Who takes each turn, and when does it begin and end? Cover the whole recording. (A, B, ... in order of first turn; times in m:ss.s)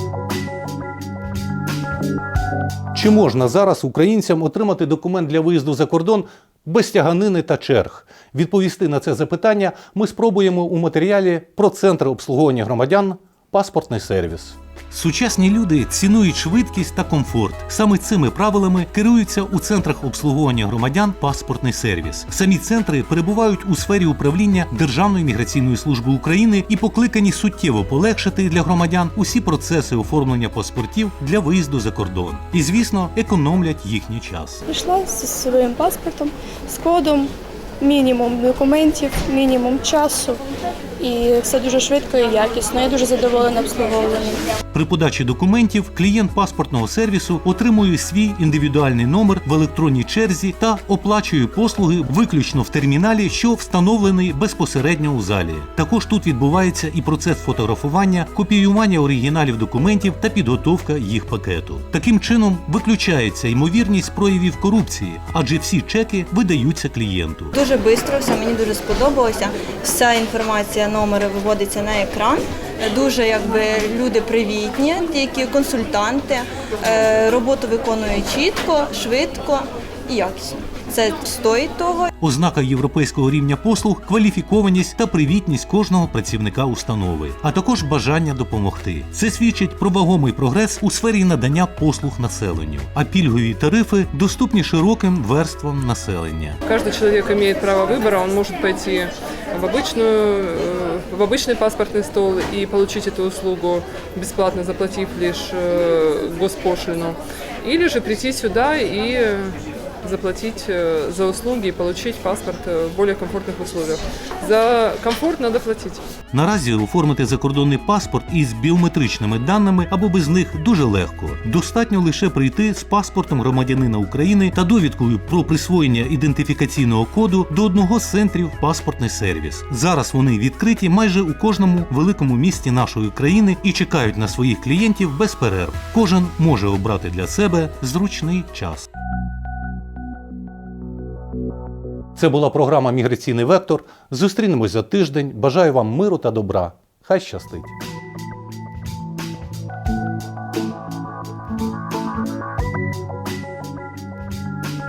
0:02.9-0:34.6 A
0:34.7-0:40.4 B
0:41.0-0:44.4 B
0:44.7-1:07.5 A
1:07.5-1:22.1 C
1:22.2-1:36.6 A
1:36.6-1:56.0 D
1:56.3-2:18.9 A
2:22.2-2:27.7 A